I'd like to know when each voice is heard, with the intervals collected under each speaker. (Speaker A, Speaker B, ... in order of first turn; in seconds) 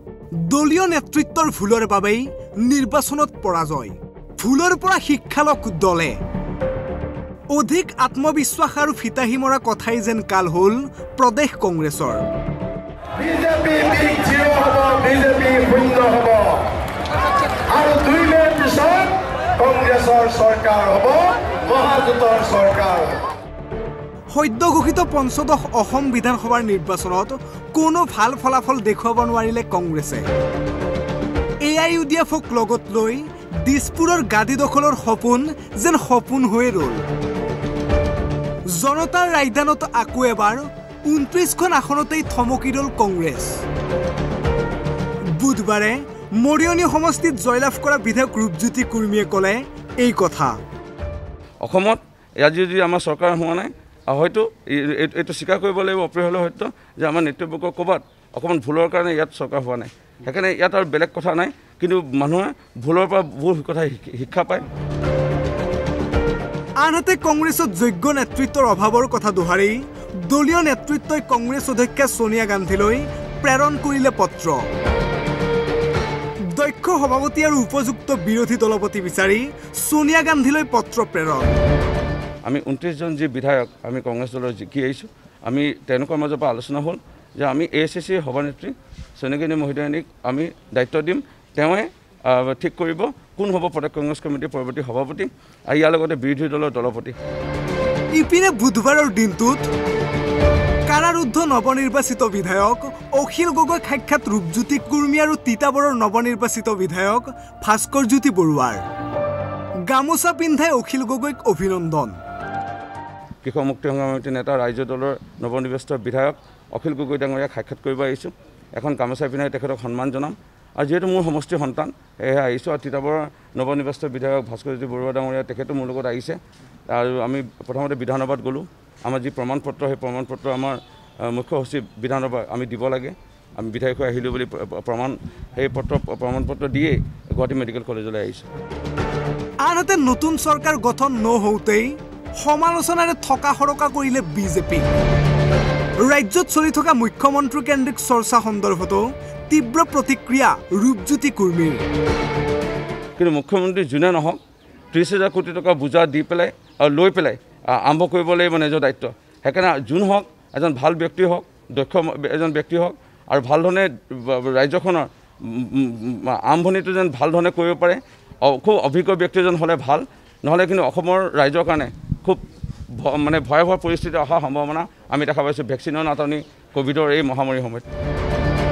Speaker A: 0.4-6.2, 7.5-12.2, 24.3-30.2, 31.6-37.0, 38.7-43.6, 45.3-50.6, 66.8-74.7, 76.5-81.5, 98.1-99.7, 100.9-108.8, 109.9-112.2, 139.6-144.9, 146.0-151.8
Speaker B: 13.2-16.7, 17.6-23.2
Speaker C: 51.6-64.6, 82.4-97.1, 113.4-138.4, 153.2-154.4, 154.9-172.4, 172.9-177.8